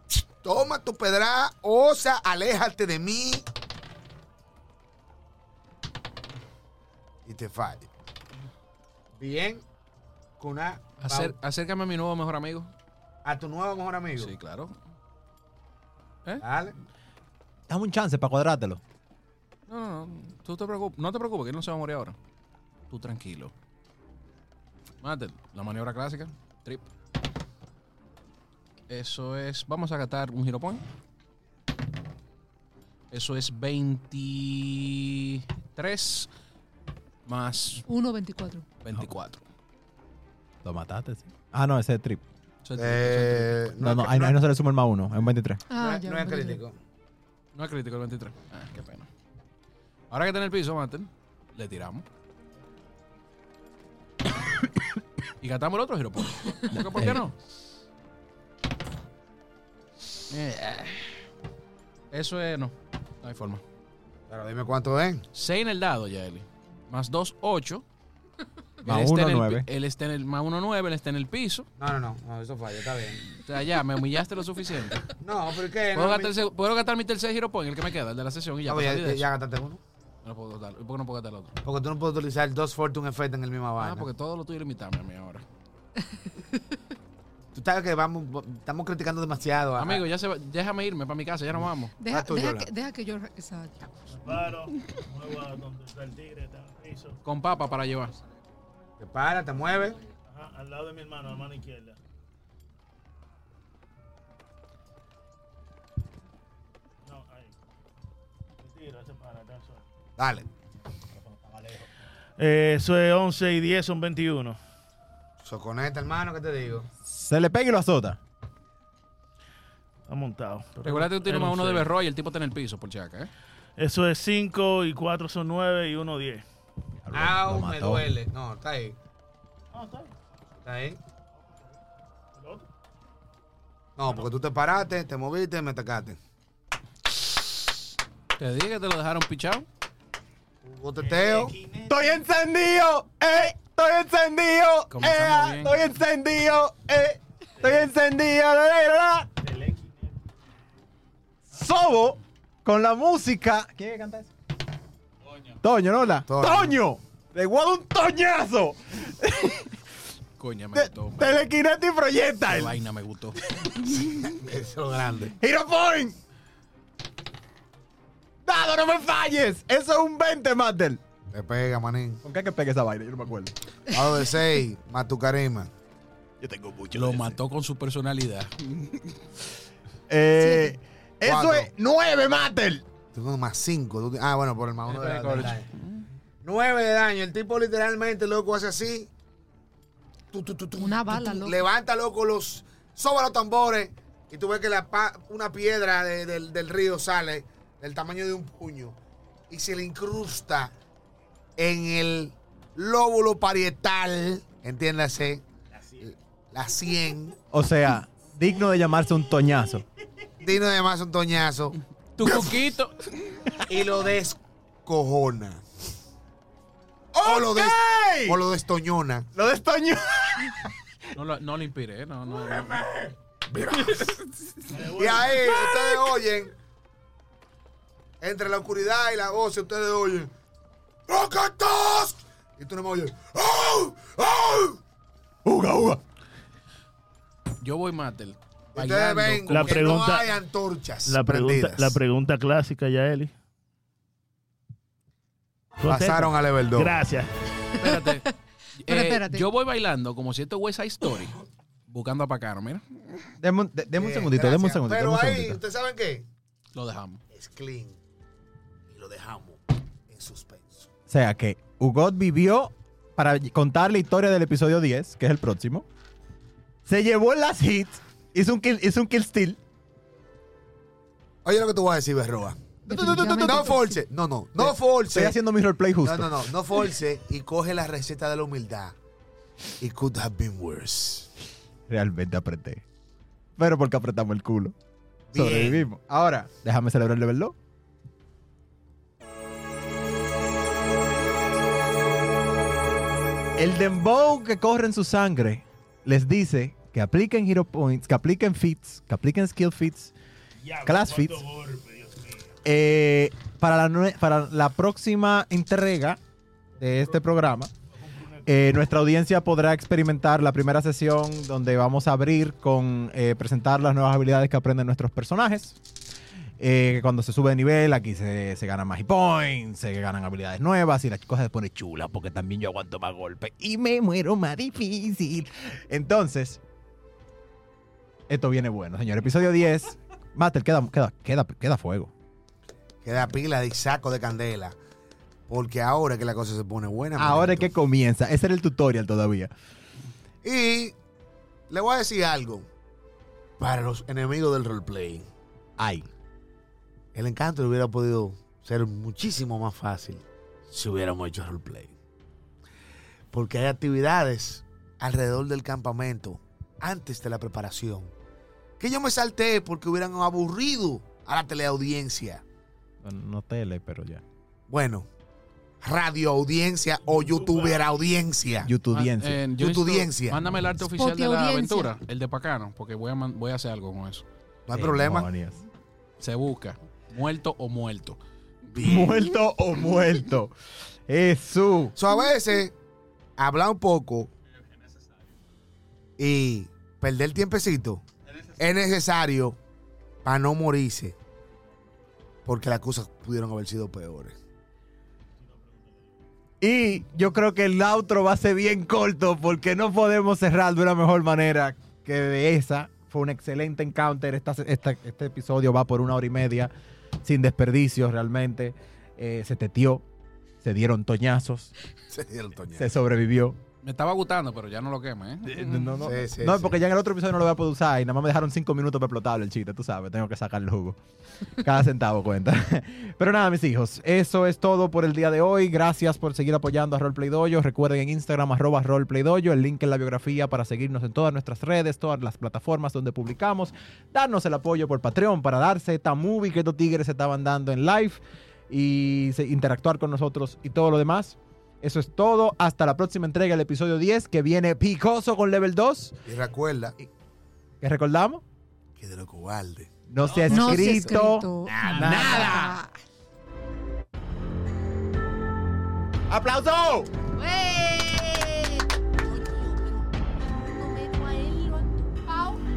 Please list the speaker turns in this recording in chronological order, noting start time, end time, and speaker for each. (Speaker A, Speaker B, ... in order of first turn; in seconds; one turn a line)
Speaker A: 0.4-3.4
Speaker A: 7.2-7.9
Speaker A: 9.2-9.6
Speaker A: 10.4-11.3
Speaker B: 11.0-12.7
Speaker A: 13.2-14.3
Speaker B: 14.2-14.7
Speaker A: 16.4-16.8
Speaker C: 17.7-18.8
Speaker B: 19.7-22.1
Speaker B: 22.9-23.5
Speaker B: 25.0-26.9
Speaker B: 28.9-30.8
Speaker B: 33.1-36.3
Speaker B: 37.2-37.8
Speaker D: 37.9-38.6
Speaker B: 38.8-39.4
Speaker C: 40.6-42.2
Speaker B: 42.6-43.7
Speaker A: 42.8-44.4
Speaker C: 43.8-45.6
Speaker D: 45.7-46.6
Speaker A: 45.7-46.8
Speaker B: 47.5-49.1
Speaker B: 50.1-52.0
Speaker B: 55.4-57.3
Speaker C: 56.9-57.2
Speaker B: 60.3-61.2
Speaker B: 62.1-63.6
Speaker A: 64.3-65.2
Speaker B: 65.3-67.8
Speaker B: 68.8-71.7
Speaker C: 68.8-69.7
Speaker A: 71.8-73.2
Speaker B: 73.3-75.2
Speaker A: 75.2-76.3
Speaker B: 75.9-79.3
Speaker A: 78.7-79.8
Speaker B: 80.2-81.5
Speaker A: 81.6-84.1
Speaker B: 83.8-85.4
Speaker A: 87.5-90.0
Speaker B: 89.8-91.9
Speaker D: 92.0-93.9
Speaker A: 92.1-92.7
Speaker E: 94.1-97.2
Speaker B: 97.2-98.1
Speaker A: 99.0-100.0
Speaker E: 100.3-102.0
Speaker E: 107.0-107.5
Speaker E: 108.6-109.8
Speaker A: 110.2-110.5
Speaker E: 112.4-114.6
Speaker A: 115.4-116.9
Speaker C: 117.0-118.2
Speaker E: 120.1-121.9
Speaker B: 120.8-123.3
Speaker E: 123.8-126.4
Speaker C: 127.0-128.1
Speaker A: 127.1-129.0
Speaker E: 129.7-130.1
Speaker A: 130.6-131.0
Speaker E: 132.3-132.7
Speaker A: 134.0-136.2
Speaker B: 138.3-139.7
Speaker A: 140.6-141.5
Speaker E: 141.0-142.2
Speaker C: 141.9-149.3
Speaker B: 144.9-145.8
Speaker E: 149.4-150.2
Speaker C: 151.5-154.3
Speaker C: 155.4-159.8
Speaker A: 156.3-156.8
Speaker B: 160.4-161.4
Speaker C: 160.7-162.8
Speaker B: 162.5-163.5
Speaker C: 163.5-164.1
Speaker A: 163.9-165.3
Speaker C: 165.4-166.2
Speaker C: 168.4-171.0
Speaker A: 171.3-172.2
Speaker C: 172.2-173.5
Speaker A: 173.9-175.7
Speaker C: 176.4-177.4
Speaker B: 176.9-179.2
Speaker C: 180.1-182.8
Speaker D: 180.4-180.8
Speaker A: 181.2-181.7
Speaker A: 183.1-185.7
Speaker B: 184.8-186.0
Speaker A: 186.4-189.1
Speaker A: 190.3-199.0
Speaker D: 190.8-191.6
Speaker A: 199.5-200.7
Speaker A: 201.6-205.4
Speaker A: 206.0-207.3
Speaker C: 207.5-209.8
Speaker A: 210.4-212.5
Speaker B: 212.2-213.6
Speaker A: 213.7-215.6
Speaker C: 217.1-218.4
Speaker A: 217.2-219.3
Speaker C: 219.3-220.7
Speaker B: 221.1-223.0
Speaker A: 223.1-224.2
Speaker E: 224.7-225.6
Speaker A: 224.8-226.5
Speaker C: 225.5-226.0
Speaker A: 228.2-230.3
Speaker A: 231.1-234.8
Speaker C: 235.4-236.0
Speaker B: 237.6-240.0
Speaker A: 238.7-242.0
Speaker E: 239.5-240.3
Speaker E: 241.1-243.3
Speaker E: 245.8-247.3
Speaker A: 245.9-247.0
Speaker D: 247.7-248.3
Speaker B: 247.8-248.2
Speaker B: 248.8-253.3
Speaker D: 248.9-249.5
Speaker C: 253.4-255.6
Speaker A: 253.9-256.3
Speaker B: 256.7-257.2
Speaker A: 257.3-258.0
Speaker A: 258.9-260.9
Speaker C: 261.1-265.9
Speaker C: 266.9-269.6
Speaker A: 271.4-275.4
Speaker D: 272.9-274.0
Speaker C: 272.9-273.7
Speaker C: 274.6-276.5
Speaker A: 276.0-278.9
Speaker A: 279.8-281.3
Speaker C: 281.9-282.8
Speaker C: 283.6-284.7
Speaker A: 285.3-285.8
Speaker C: 285.3-287.5
Speaker C: 293.6-300.1
Speaker E: 300.6-302.5
Speaker C: 300.8-301.4
Speaker C: 302.6-306.2
Speaker C: 306.8-307.7
Speaker E: 306.8-307.2
Speaker E: 307.9-308.5
Speaker C: 308.4-315.8
Speaker C: 316.6-326.6
Speaker C: 328.3-332.1
Speaker A: 333.0-334.8
Speaker A: 335.5-337.7
Speaker C: 337.2-339.5
Speaker A: 340.4-340.9
Speaker A: 341.7-342.7
Speaker A: 343.6-345.3
Speaker C: 345.8-346.1
Speaker A: 347.1-351.9
Speaker A: 353.3-358.1
Speaker A: 358.8-362.4
Speaker C: 363.0-364.2
Speaker A: 364.7-365.1
Speaker A: 365.8-368.7
Speaker E: 367.4-367.8
Speaker C: 368.6-369.4
Speaker B: 368.9-374.2
Speaker A: 369.5-370.4
Speaker D: 370.9-371.9
Speaker A: 374.7-375.3
Speaker C: 374.7-375.6
Speaker B: 376.2-378.2
Speaker A: 378.7-379.2
Speaker C: 378.8-380.5
Speaker C: 381.1-381.9
Speaker A: 381.9-382.7
Speaker A: 383.4-384.3
Speaker A: 386.2-388.0
Speaker A: 388.6-389.6
Speaker A: 390.2-391.1
Speaker A: 392.4-394.4
Speaker E: 395.4-396.1
Speaker C: 396.6-406.7
Speaker C: 407.2-410.0
Speaker C: 410.6-411.7
Speaker A: 412.1-412.9
Speaker C: 412.7-413.6
Speaker B: 413.8-416.0
Speaker C: 415.5-421.0
Speaker A: 416.0-416.7
Speaker C: 421.6-446.2
Speaker A: 446.3-446.9
Speaker C: 447.8-448.4
Speaker A: 449.0-449.9
Speaker C: 450.1-452.8
Speaker D: 450.4-452.9
Speaker B: 450.5-450.8
Speaker A: 451.6-452.7
Speaker C: 456.3-457.1
Speaker D: 457.3-462.7